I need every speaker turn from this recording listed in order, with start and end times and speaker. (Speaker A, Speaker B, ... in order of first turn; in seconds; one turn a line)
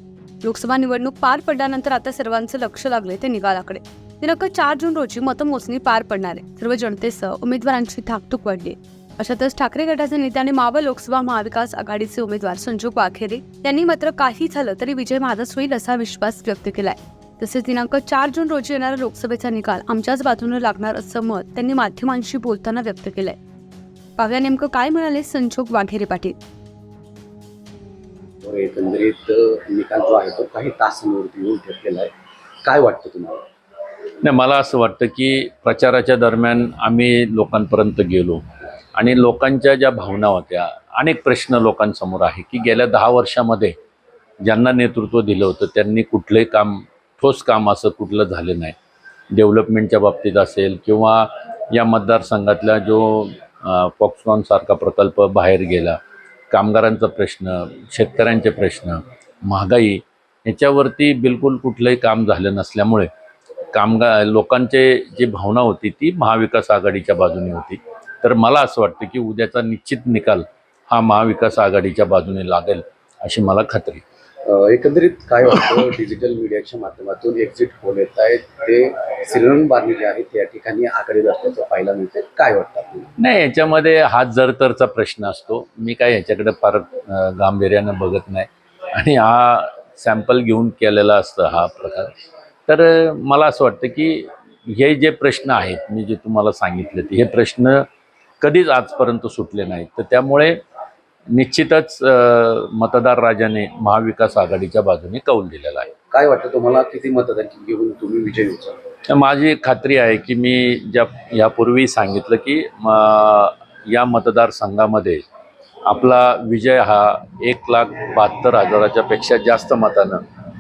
Speaker A: 0.4-23.4
Speaker A: 24.2-26.4
Speaker B: 28.4-32.1
Speaker B: 32.6-33.4
Speaker C: 34.2-43.7
Speaker C: 44.4-48.8
Speaker C: 49.3-56.0
Speaker C: 56.5-63.1
Speaker C: 63.7-74.0
Speaker B: 74.4-83.1
Speaker C: 83.2-92.1
Speaker C: 92.7-97.8
Speaker C: 98.4-100.6
Speaker C: 101.3-105.9
Speaker B: 106.1-108.8
Speaker C: 109.1-115.2
Speaker C: 115.9-120.2